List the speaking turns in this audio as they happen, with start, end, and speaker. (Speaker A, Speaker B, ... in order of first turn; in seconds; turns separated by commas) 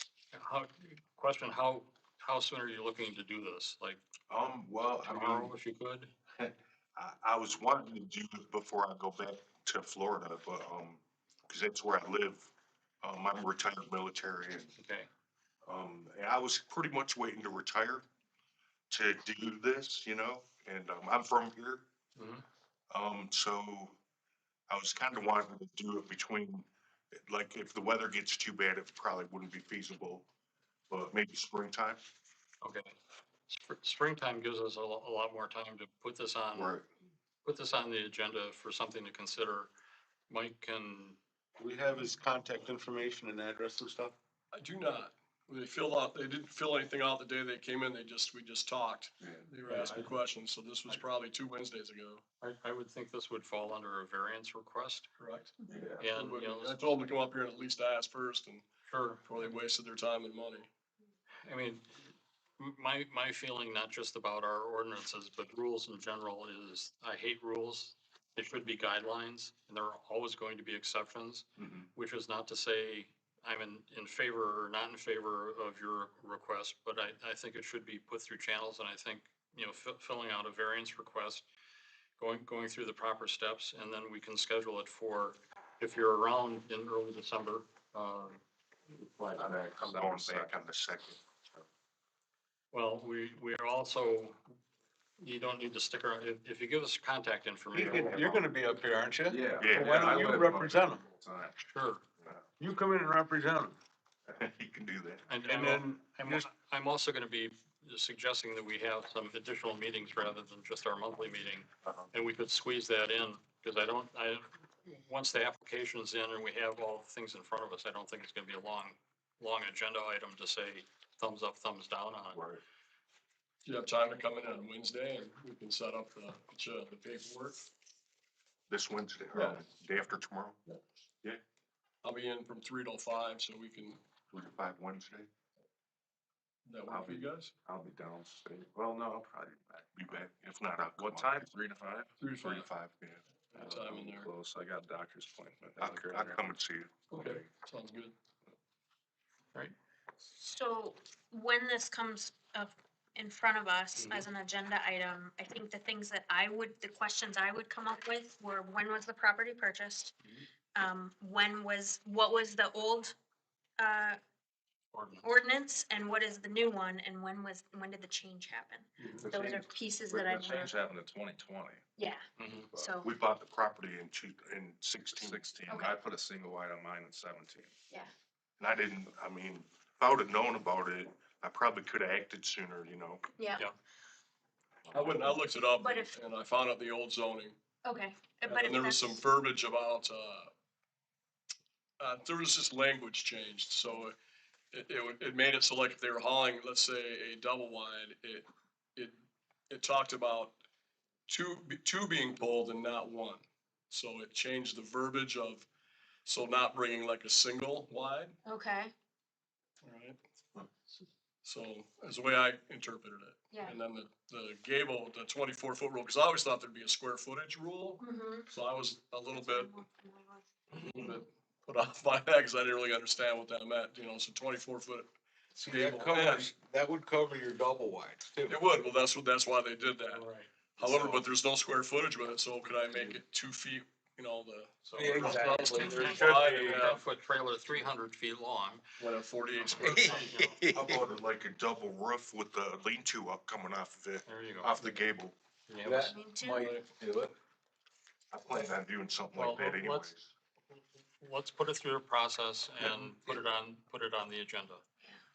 Speaker A: 0.3-4.0, Speaker B: 4.3-5.5, Speaker A: 5.0-6.1, Speaker B: 6.4-12.5, Speaker B: 13.0-14.7, Speaker A: 14.8-15.1, Speaker B: 15.6-18.0, Speaker B: 18.9-21.9, Speaker A: 22.1-22.4, Speaker B: 22.9-24.0, Speaker B: 24.7-30.3, Speaker B: 30.9-32.0, Speaker A: 32.6-32.9, Speaker A: 33.5-36.8, Speaker B: 36.5-36.8, Speaker A: 37.4-39.7, Speaker A: 40.3-41.2, Speaker C: 41.6-44.1, Speaker D: 44.5-52.2, Speaker A: 49.6-50.1, Speaker A: 52.4-55.1, Speaker D: 55.2-58.6, Speaker E: 55.7-56.1, Speaker A: 56.0-56.9, Speaker A: 58.9-59.5, Speaker D: 59.2-60.7, Speaker A: 61.4-81.4, Speaker B: 71.6-71.8, Speaker A: 82.2-88.4, Speaker E: 89.2-90.6, Speaker B: 89.4-91.2, Speaker A: 92.7-94.4, Speaker A: 95.2-98.1, Speaker C: 97.7-101.0, Speaker B: 97.8-98.5, Speaker E: 99.3-101.6, Speaker B: 99.6-100.1, Speaker A: 101.6-102.0, Speaker C: 102.6-103.7, Speaker B: 104.3-105.3, Speaker A: 105.3-122.4, Speaker C: 105.4-106.5, Speaker B: 122.3-122.6, Speaker D: 123.6-127.6, Speaker B: 128.7-130.6, Speaker D: 129.3-129.7, Speaker D: 132.0-134.0, Speaker B: 134.3-135.3, Speaker D: 136.6-137.5, Speaker E: 136.9-140.2, Speaker B: 139.9-141.5, Speaker E: 140.9-142.7, Speaker D: 142.2-142.7, Speaker B: 142.6-143.2, Speaker D: 143.5-144.3, Speaker E: 143.5-146.6, Speaker B: 145.8-147.0, Speaker D: 147.1-148.1, Speaker E: 147.1-147.5, Speaker F: 150.3-160.1, Speaker A: 153.9-154.2, Speaker F: 160.7-163.1, Speaker F: 163.8-164.2, Speaker A: 164.9-165.3, Speaker F: 165.2-170.8, Speaker D: 169.0-169.2, Speaker E: 169.2-171.8, Speaker F: 172.0-173.2, Speaker A: 172.4-172.7, Speaker B: 173.0-175.5, Speaker E: 175.2-177.7, Speaker F: 175.7-176.0, Speaker B: 178.6-183.2, Speaker F: 183.4-183.7, Speaker D: 184.9-187.6, Speaker B: 184.9-185.3, Speaker F: 185.8-186.2, Speaker F: 187.8-189.2, Speaker D: 188.4-190.5, Speaker D: 192.0-194.2, Speaker D: 194.7-199.2, Speaker D: 199.7-200.6, Speaker D: 201.3-205.7, Speaker D: 206.2-208.4, Speaker F: 208.4-208.9, Speaker D: 209.8-210.2, Speaker D: 211.4-219.7, Speaker F: 213.5-213.8, Speaker F: 218.0-218.5, Speaker F: 219.3-220.5, Speaker D: 220.7-225.1, Speaker C: 225.5-228.6, Speaker D: 225.7-226.5, Speaker D: 228.5-237.0, Speaker A: 230.0-230.5, Speaker A: 234.8-238.8, Speaker C: 234.9-236.9, Speaker D: 239.0-240.3, Speaker A: 239.6-240.7, Speaker C: 239.8-241.1, Speaker B: 240.7-245.3, Speaker A: 244.2-244.9, Speaker A: 245.7-246.1, Speaker C: 245.8-247.3, Speaker F: 246.0-246.7, Speaker D: 246.6-246.8, Speaker B: 248.3-250.3, Speaker A: 249.3-250.1, Speaker A: 250.8-254.8